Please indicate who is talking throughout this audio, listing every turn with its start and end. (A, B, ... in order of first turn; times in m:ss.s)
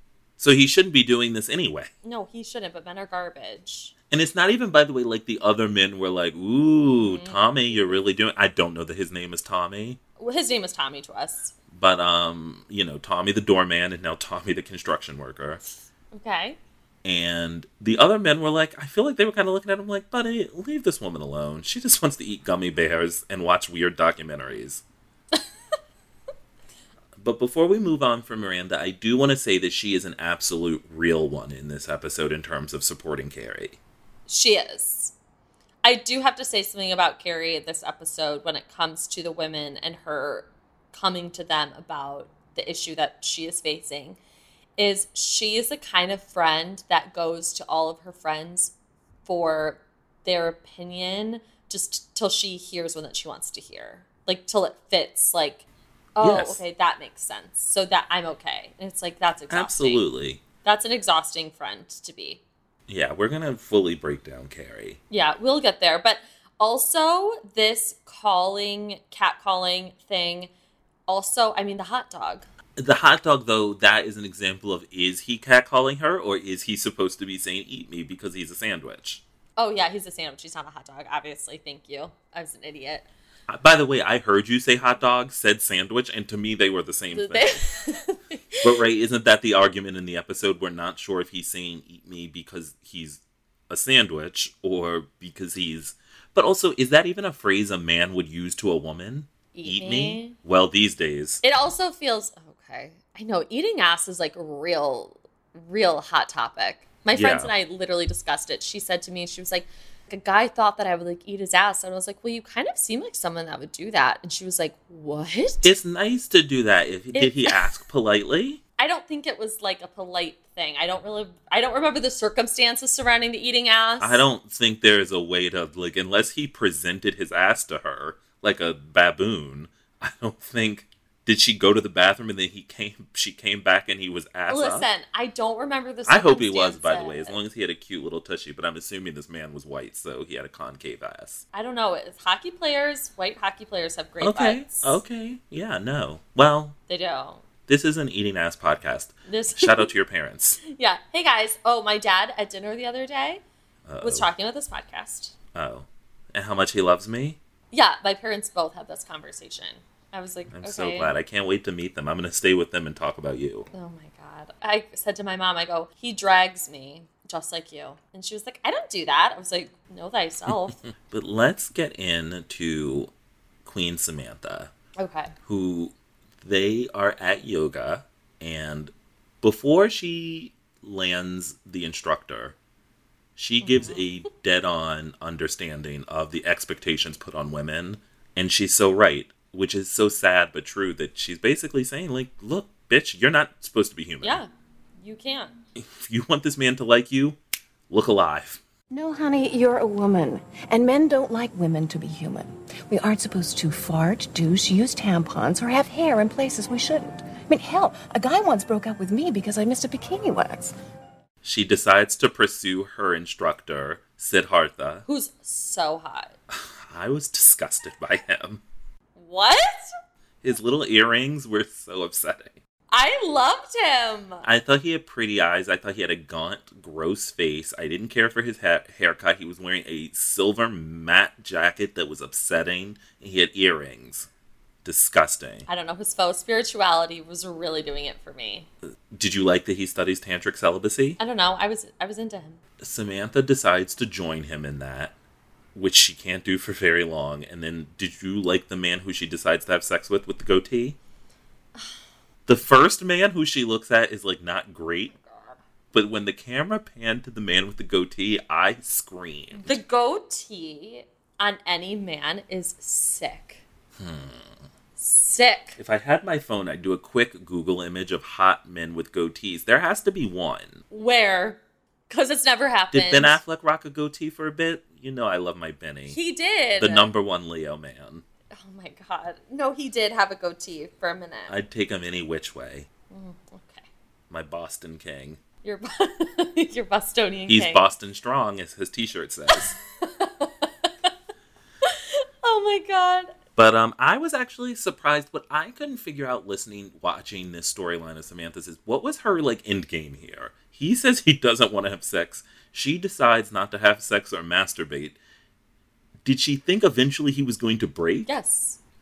0:00.4-0:01.9 A
0:02.0-0:03.9 B
0:04.1-0:10.0 A
0:07.0-0:08.0 B
0:10.2-0:11.5 B
0:11.7-0:15.6 A
0:16.1-0:16.6 B
0:17.0-0:24.8 A
0:27.2-0:33.8 A
0:34.3-0:35.1 B
0:35.8-0:44.2 B
0:44.8-0:48.7 B
0:49.2-0:55.6 B
0:56.2-1:00.0 B
0:56.2-0:56.6 A
0:59.5-1:00.4 A
1:00.6-1:02.4 B
1:02.9-1:05.0 A
1:05.1-1:10.5 B
1:11.1-1:12.4 B
1:12.8-1:19.2 A
1:19.6-1:23.1 B
1:23.5-1:27.7 A
1:27.1-1:28.7 B
1:28.6-1:41.4 A
1:39.5-1:40.4 B
1:41.4-1:55.7 B
1:47.1-1:47.5 A
1:55.6-1:58.6 A
1:57.1-1:57.7 B
1:58.8-2:04.2 B
2:04.0-2:14.9 A
2:14.5-2:17.4 B
2:16.1-2:21.4 A
2:21.5-2:25.0 B
2:24.2-2:26.8 A
2:26.9-2:27.4 B
2:27.7-2:30.6 A
2:29.3-2:29.9 B
2:30.7-2:33.4 B
2:33.9-2:34.3 A
2:34.0-2:35.3 B
2:35.6-2:37.4 A
2:37.7-2:41.1 B
2:40.5-2:43.7 A
2:43.7-2:50.8 B
2:50.5-2:53.1 A
2:53.7-2:54.7 A
2:55.0-2:55.3 B
2:55.4-3:02.6 A
3:03.4-3:14.4 A
3:03.6-3:04.1 B
3:14.2-3:14.5 B
3:15.0-3:15.5 B
3:15.8-3:17.4 A
3:17.9-3:18.6 A
3:18.9-3:30.7 C
3:31.4-3:35.0 A
3:35.1-3:36.4 B
3:36.5-3:38.6 A
3:39.2-3:39.9 B
3:40.4-3:42.6 A
3:42.9-3:44.4 B
3:44.4-3:54.3 A
3:54.8-3:55.7 A
3:55.7-3:58.7 B
3:59.1-4:01.2 A
4:01.2-4:02.6 B
4:02.8-4:05.1 A
4:05.8-4:11.0 A
4:12.5-4:15.1 A
4:15.1-4:15.6 B
4:15.9-4:19.8 A
4:19.5-4:23.6 B
4:24.0-4:24.5 A
4:25.0-4:25.8 B
4:25.8-4:30.8 A
4:30.9-4:33.4 B
4:32.9-4:36.2 A
4:36.1-4:37.1 B
4:36.8-4:38.2 A
4:38.5-4:41.5 B
4:41.5-4:42.9 A
4:43.1-4:43.9 B
4:44.3-4:45.4 A
4:45.6-4:47.8 B
4:47.5-4:49.8 A
4:49.6-4:51.1 B
4:51.8-4:53.3 B
4:53.6-5:05.2 A
5:06.2-5:08.3 A
5:08.3-5:08.8 B